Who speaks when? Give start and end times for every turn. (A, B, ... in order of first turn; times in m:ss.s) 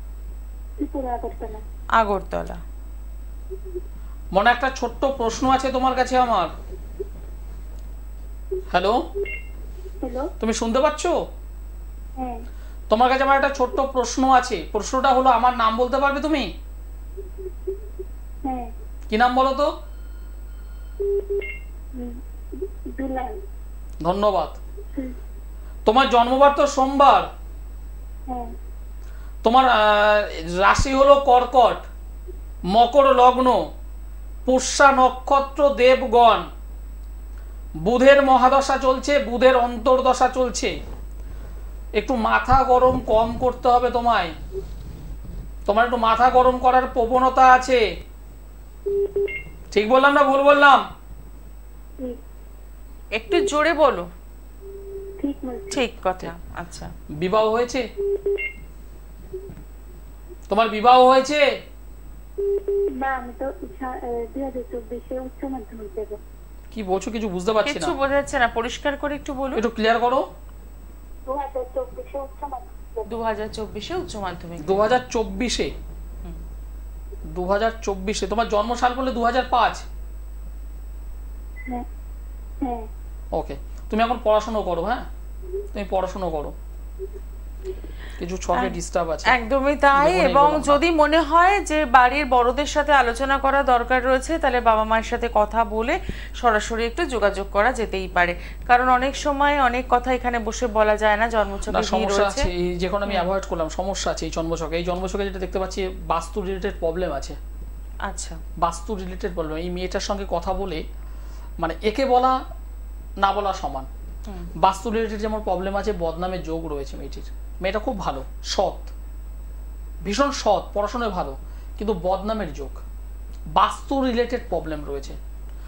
0:00.8-0:01.6 A
0:02.0-0:02.6 B
0:04.3-0:06.5 C
0:08.7-0:09.0 C
0:10.0-0:10.3 A
0:10.4-0:11.2 C
0:12.2-0:12.4 A
0:12.9-0:16.5 C
0:18.4-0:18.7 A
0:19.1-0:19.7 C
0:22.9-0:23.4 A
0:24.0-0:24.6 C
0:25.8-0:27.3 C
0:28.3-0:28.5 A
0:29.4-0:31.9 C
0:32.7-0:33.6 C
0:34.4-0:36.5 C
0:37.8-0:40.7 C
0:42.0-0:44.3 C
0:45.7-0:47.8 C
0:49.7-0:50.8 C
0:53.1-0:54.1 B
0:55.2-0:55.8 A
0:55.7-0:56.9 B
0:57.2-0:57.9 C
1:00.5-1:01.4 C
1:03.0-1:06.2 A
1:06.7-1:07.9 C
1:07.6-1:09.6 B
1:09.5-1:10.2 C
1:11.2-1:13.0 A
1:13.0-1:14.9 B
1:14.6-1:15.7 C
1:17.3-1:19.8 C
1:22.6-1:22.9 A
1:23.3-1:25.1 C
1:25.7-1:26.5 C
1:28.2-1:29.4 C
1:29.2-1:42.5 B
1:29.9-1:30.8 C
1:41.7-1:47.4 C
1:48.0-1:48.4 B
1:48.6-1:50.8 C
1:51.6-1:52.4 C
1:53.2-1:53.9 C
1:54.6-1:58.9 C
2:00.0-2:02.8 C
2:03.5-2:05.2 C